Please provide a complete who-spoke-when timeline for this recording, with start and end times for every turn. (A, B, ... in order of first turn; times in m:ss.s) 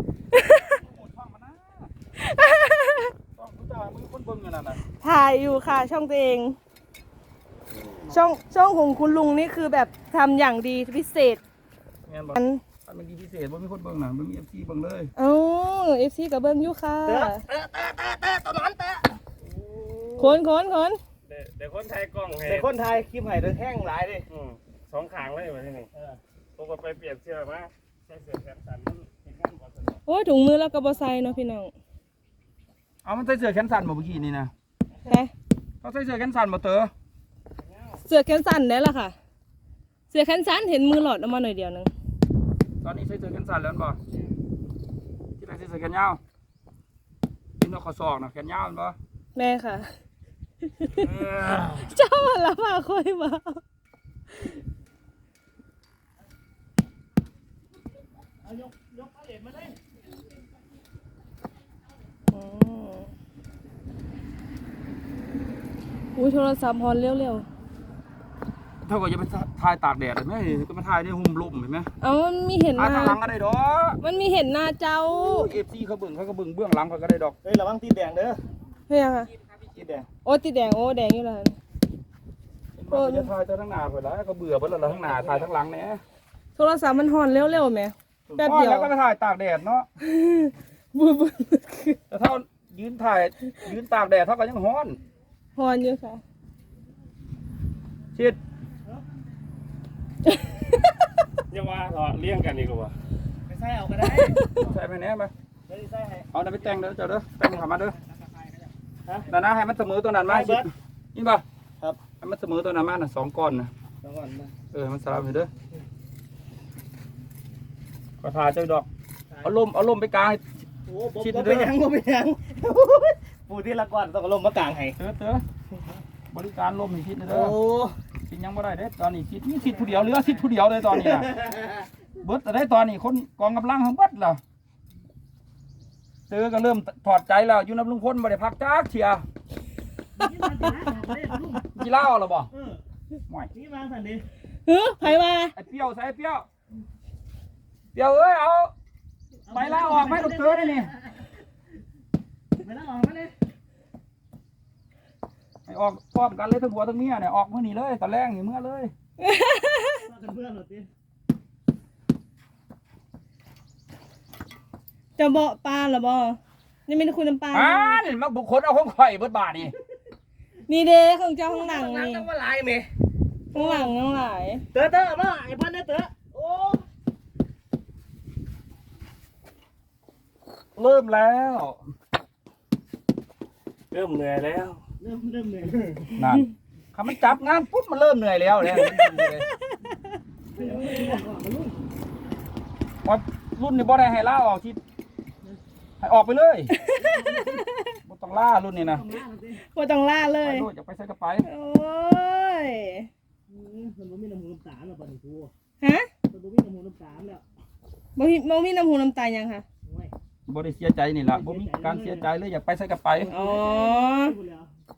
0:00.3-0:00.8 A
0:00.7-0:01.9 B
0:02.2-0:03.1 A
0:03.3-0:04.8 B
0:05.0-0:06.6 A
0:07.7-0:08.2 B
0:08.1-0:11.4 A
0:12.0-0:15.1 B
0:12.3-0:12.6 A
0:15.2-0:17.4 A
0:17.0-0:19.2 C
0:20.0-0:20.4 C
0:20.2-0:21.0 A
0:21.2-0:22.7 D
0:22.4-0:24.3 C
0:24.3-0:25.9 D
0:25.9-0:26.2 C
0:26.6-0:29.6 D
0:30.0-0:31.7 A
0:33.0-0:34.5 B
0:35.0-0:35.3 A
0:35.8-0:36.9 B
0:38.1-0:39.1 A
0:40.1-0:41.9 A
0:42.8-0:44.0 B
0:45.4-0:46.2 B
0:47.6-0:49.0 B
0:49.4-0:49.9 A
0:50.8-0:51.2 A
0:51.8-0:53.6 A
0:58.4-0:59.7 C
1:02.3-1:03.1 A
1:06.2-1:07.4 A
1:08.8-1:11.9 B
1:12.0-1:13.2 A
1:12.8-1:14.0 B
1:14.0-1:15.5 A
1:15.1-1:17.3 B
1:17.4-1:18.4 C
1:18.9-1:19.3 A
1:19.7-1:20.1 C
1:20.2-1:21.6 A
1:22.8-1:26.0 B
1:22.9-1:23.3 A
1:26.6-1:28.9 A
1:28.3-1:29.9 B
1:30.0-1:32.0 A
1:32.1-1:35.0 B
1:35.6-1:36.2 A
1:40.2-1:40.7 A
1:41.5-1:42.9 D
1:43.5-1:44.4 C
1:44.5-1:45.3 B
1:45.7-1:46.3 C
1:46.3-1:48.0 B
1:49.3-1:51.4 B
1:50.3-1:50.7 C
1:52.2-1:53.7 B
1:54.0-1:54.5 C
1:54.7-1:55.5 B
1:58.2-1:58.9 B
1:59.4-2:00.4 B
2:00.8-2:05.0 C
2:01.2-2:01.7 B
2:05.0-2:05.4 B
2:06.3-2:07.6 B
2:07.3-2:07.9 C
2:08.3-2:11.3 B
2:10.9-2:11.8 C
2:12.2-2:14.4 B
2:16.3-2:19.2 B
2:20.2-2:21.6 C
2:21.7-2:22.5 B
2:22.5-2:22.8 C
2:23.5-2:24.2 C
2:24.7-2:25.5 A
2:25.0-2:26.4 B
2:27.9-2:28.7 B
2:29.4-2:31.3 C
2:29.5-2:30.9 B
2:32.6-2:33.3 C
2:35.7-2:38.9 B
2:39.2-2:40.1 A
2:40.0-2:40.9 C
2:45.2-2:48.0 A
2:47.5-2:49.7 B
2:50.7-2:52.3 A
2:51.4-2:52.9 C
2:53.5-2:54.6 A
2:53.5-2:53.9 C
2:54.7-2:56.8 C
3:00.8-3:01.8 B
3:03.9-3:04.8 D
3:05.0-3:06.2 C
3:06.2-3:09.5 B
3:08.6-3:10.0 A
3:10.5-3:11.8 C
3:13.0-3:14.8 B
3:16.0-3:16.7 B
3:16.7-3:18.0 A
3:16.9-3:17.6 C
3:18.0-3:19.0 B
3:18.8-3:19.6 C
3:19.6-3:20.7 A
3:20.4-3:21.5 B
3:21.4-3:23.1 A
3:23.5-3:25.5 C
3:25.8-3:26.1 A
3:26.3-3:27.4 C
3:28.2-3:29.6 A
3:29.8-3:30.1 C
3:30.5-3:33.3 B
3:31.3-3:32.2 C
3:33.3-3:34.4 A
3:33.3-3:34.7 C